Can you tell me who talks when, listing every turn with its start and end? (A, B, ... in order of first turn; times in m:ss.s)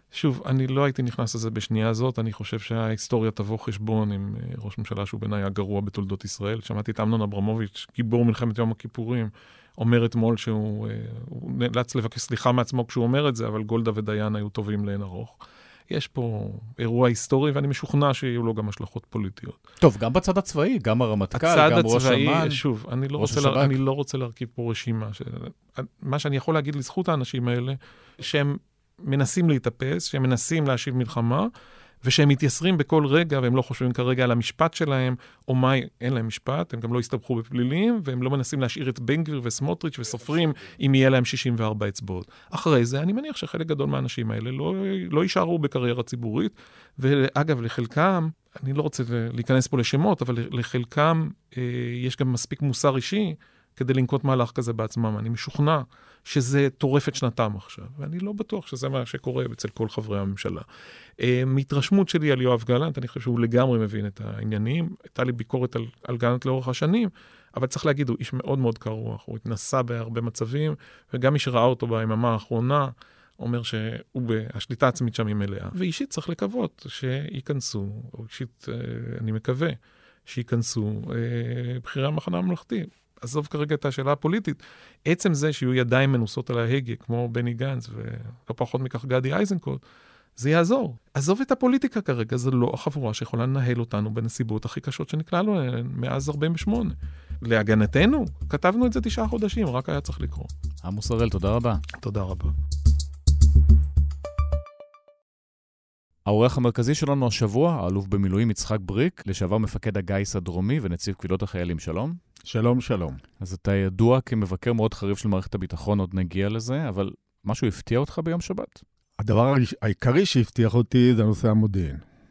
0:00.1-0:15.4 A
0:15.9-0:19.6 A
0:19.8-0:22.6 B
0:21.3-0:31.5 A
0:23.2-0:23.8 B
0:32.0-1:00.6 A
1:01.2-1:19.8 A
1:20.3-1:29.8 A
1:30.4-1:40.5 A
1:40.8-1:41.8 B
1:42.0-1:42.6 A
1:46.3-1:52.2 B
1:52.5-1:53.2 C
1:53.4-1:58.8 B
1:59.2-2:02.0 C